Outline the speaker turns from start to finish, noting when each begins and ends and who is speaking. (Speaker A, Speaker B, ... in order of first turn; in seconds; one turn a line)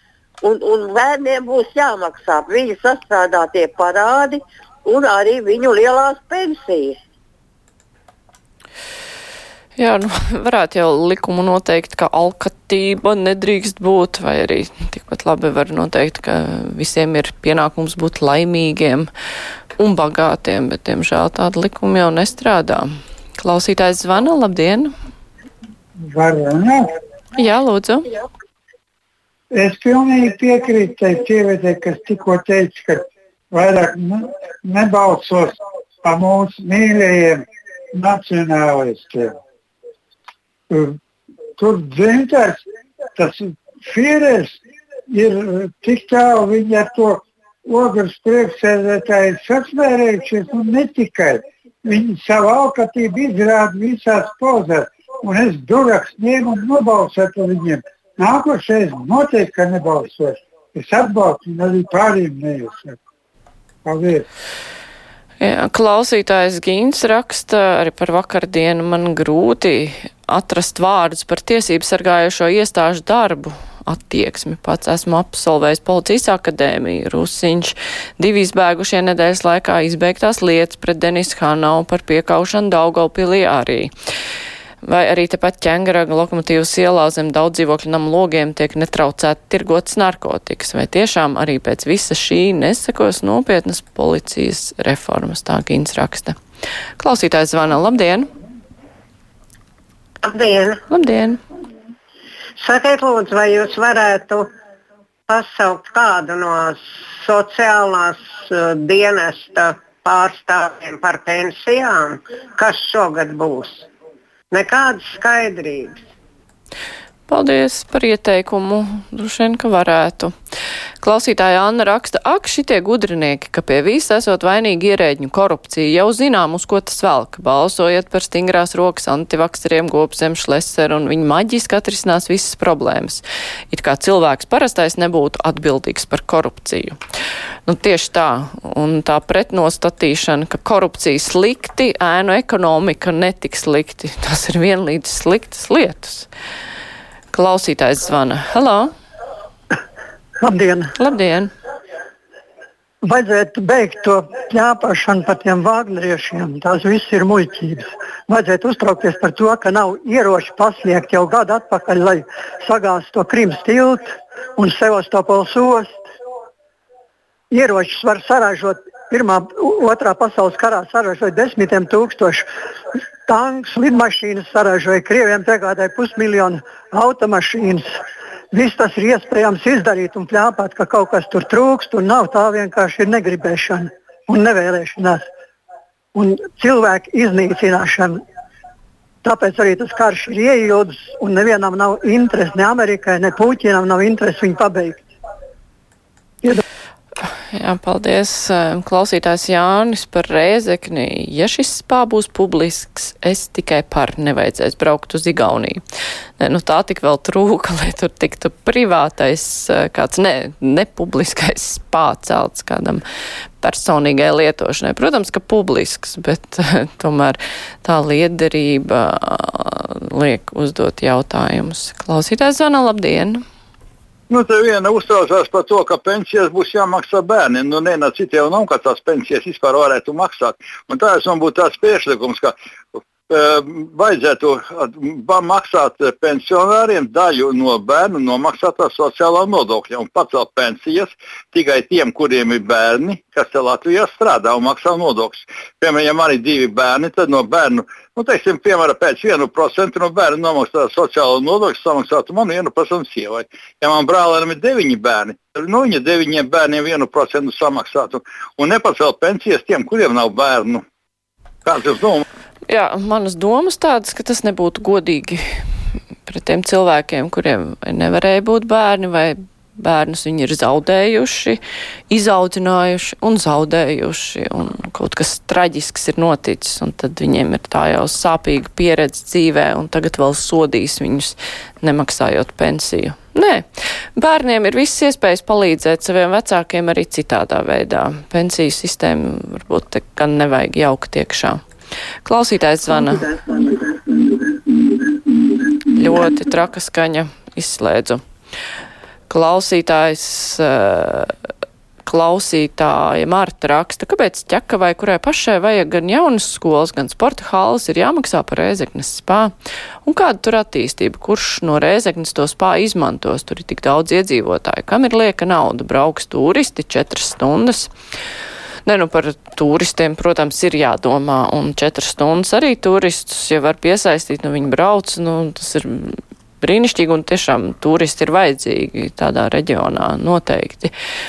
Speaker A: 0.4-6.9
Speaker B: 9.8-19.1
Speaker B: 19.8-22.9
Speaker B: 23.4-24.9
Speaker C: 26.1-26.8
Speaker B: 27.4-28.1
Speaker C: 29.5-39.3
Speaker C: 40.7-41.0
Speaker C: 41.6-42.6
Speaker C: 43.1-44.5
Speaker C: 45.1-63.0
Speaker C: 63.8-64.2
Speaker B: 65.4-83.9
Speaker B: 84.8-96.3
Speaker B: 97.0-98.3
Speaker D: 100.2-100.8
Speaker B: 100.9-101.4
Speaker D: 102.6-104.5
Speaker D: 105.3-113.9
Speaker D: 114.5-116.0
Speaker B: 117.3-120.3
Speaker B: 121.0-137.0
Speaker B: 137.7-146.3
Speaker B: 147.3-148.9
Speaker E: 150.4-150.9
Speaker B: 151.0-151.5
Speaker E: 153.0-164.0
Speaker E: 164.6-165.9
Speaker E: 167.5-172.4
Speaker E: 173.3-177.8
Speaker E: 178.5-185.2
Speaker E: 186.1-188.1
Speaker E: 189.2-195.0
Speaker B: 197.5-205.8
Speaker B: 206.4-213.0
Speaker B: 213.6-223.4
Speaker F: 224.3-232.5
Speaker F: 233.3-260.8
Speaker F: 261.6-262.2
Speaker B: 262.7-265.6
Speaker B: 266.2-283.6
Speaker B: 284.1-291.6
Speaker B: 292.2-293.6
Speaker B: 295.9-298.2
Speaker B: 299.3-301.3
Speaker B: 302.0-309.5
Speaker B: 310.0-317.9
Speaker B: 318.9-330.9